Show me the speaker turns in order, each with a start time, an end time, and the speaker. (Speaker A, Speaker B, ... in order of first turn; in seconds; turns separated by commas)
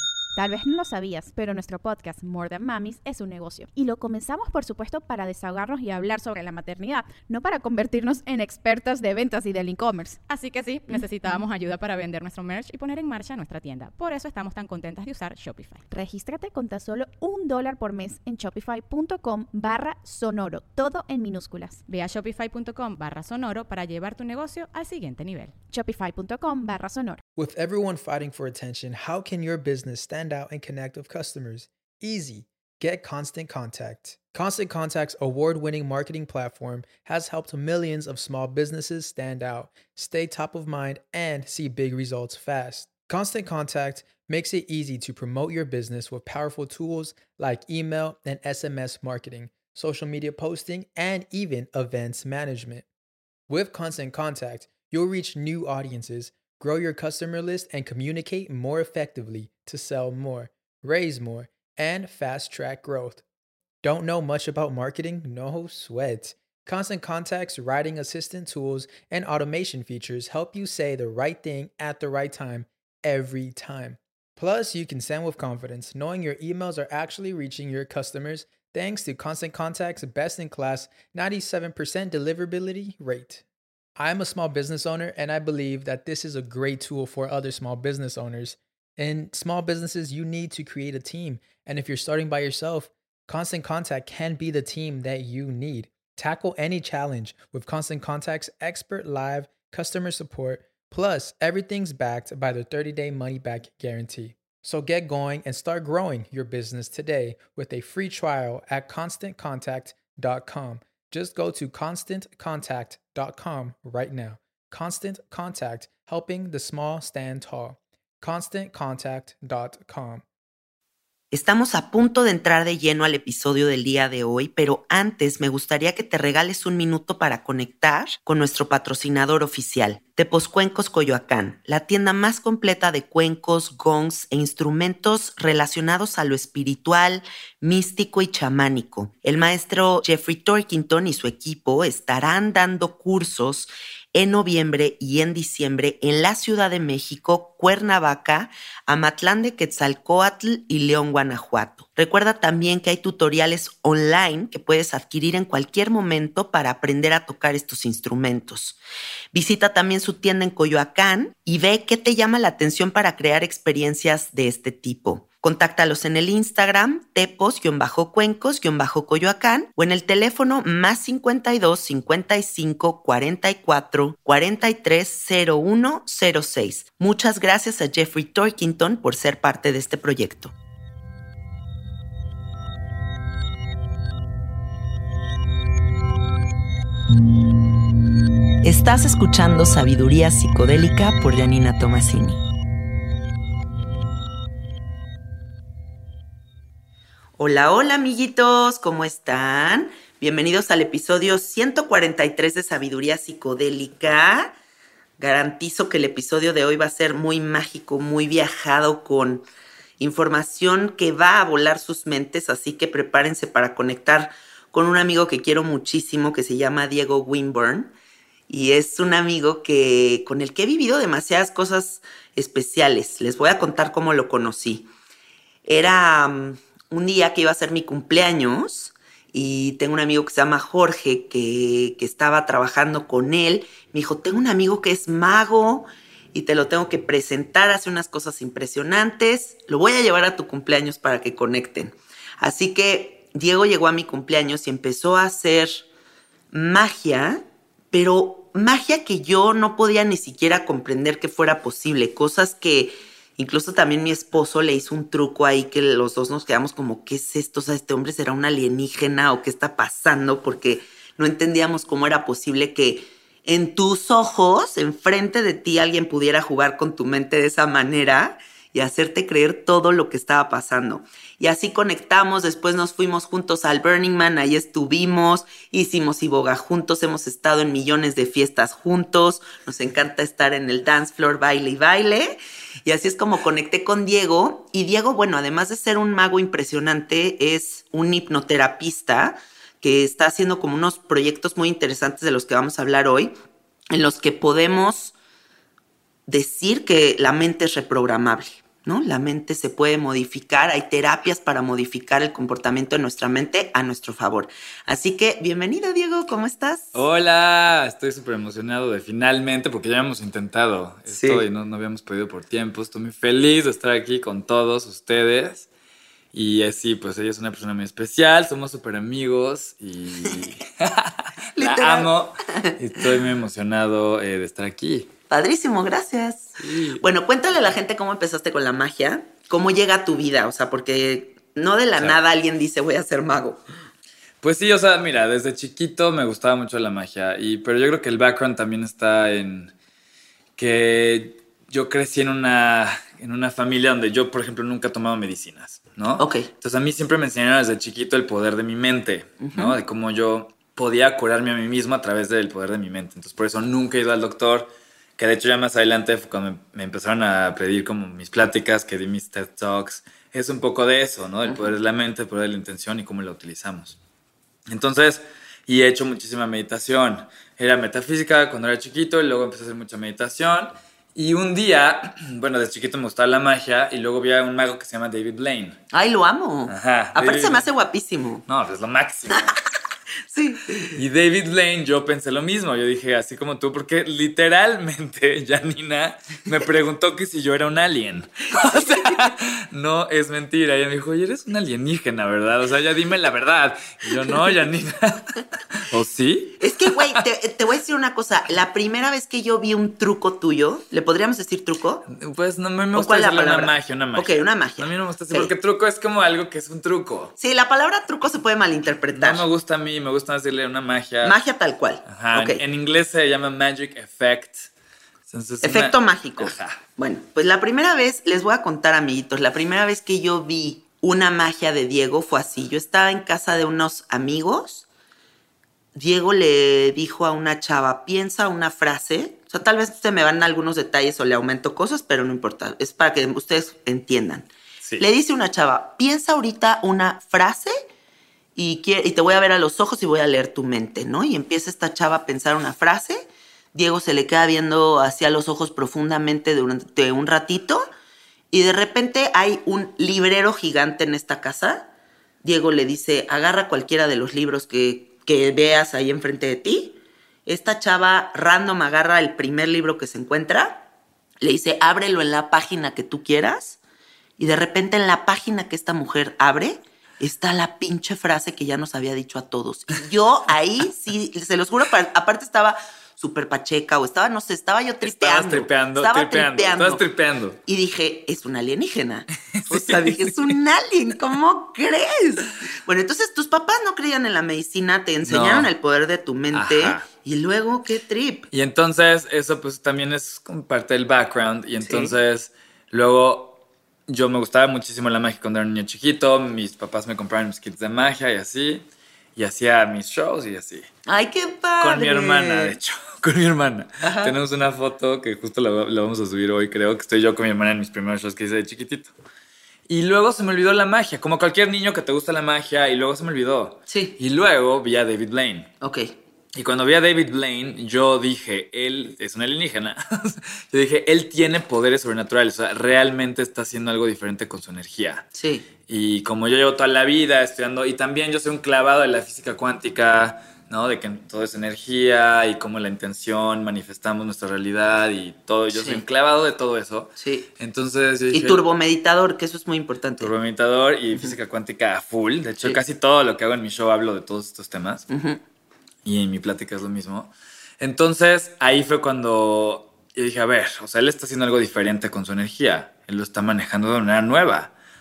Speaker A: 0.4-10.2, Speaker B: 10.3-15.8, Speaker A: 15.9-21.8, Speaker B: 21.9-25.6, Speaker A: 25.7-27.2, Speaker C: 27.4-52.9, Speaker C: 53.5-63.2, Speaker C: 63.8-83.4, Speaker C: 84.0-120.2, Speaker D: 121.3-158.8, Speaker D: 159.3-180.5, Speaker D: 188.6-192.4, Speaker D: 197.4-204.5, Speaker D: 205.2-209.4, Speaker D: 210.0-217.9, Speaker D: 218.5-224.9, Speaker D: 225.7-245.9, Speaker D: 246.5-293.3, Speaker D: 293.9-295.1, Speaker D: 296.3-307.0, Speaker E: 306.9-315.7, Speaker D: 311.1-311.4, Speaker E: 316.3-325.1, Speaker D: 321.6-322.1, Speaker D: 325.3-333.6, Speaker E: 326.6-327.0, Speaker E: 334.4-339.7, Speaker E: 340.6-364.0, Speaker D: 346.2-346.5, Speaker D: 349.4-349.8, Speaker D: 361.5-361.7, Speaker E: 364.7-375.8, Speaker D: 375.9-378.4, Speaker E: 376.7-377.7, Speaker E: 378.5-379.5, Speaker D: 380.3-381.0, Speaker E: 380.9-397.2, Speaker D: 388.6-389.1, Speaker D: 396.6-402.1, Speaker E: 402.1-407.4, Speaker D: 403.0-405.5, Speaker D: 407.4-409.4, Speaker E: 409.2-411.4, Speaker D: 411.2-412.6, Speaker E: 412.1-414.7, Speaker E: 415.3-416.8, Speaker D: 415.6-424.9, Speaker D: 425.9-437.8, Speaker D: 438.6-447.9, Speaker D: 448.5-451.9, Speaker D: 452.4-460.9, Speaker D: 461.4-463.8, Speaker D: 464.4-477.0, Speaker E: 475.0-477.6, Speaker D: 477.7-488.5, Speaker E: 479.6-480.6, Speaker E: 485.2-485.7, Speaker E: 486.5-487.1, Speaker E: 488.5-498.9, Speaker D: 491.8-492.1, Speaker E: 499.4-500.9, Speaker D: 501.1-502.8, Speaker E: 501.8-509.1, Speaker D: 504.0-504.4, Speaker E: 509.9-515.7, Speaker D: 513.9-514.2, Speaker D: 515.8-516.1, Speaker E: 516.5-525.3, Speaker D: 525.4-525.7, Speaker E: 525.9-538.6, Speaker D: 535.7-536.0, Speaker D: 537.2-537.5, Speaker D: 538.3-540.3, Speaker E: 540.2-545.1, Speaker D: 545.1-545.4, Speaker E: 546.0-554.7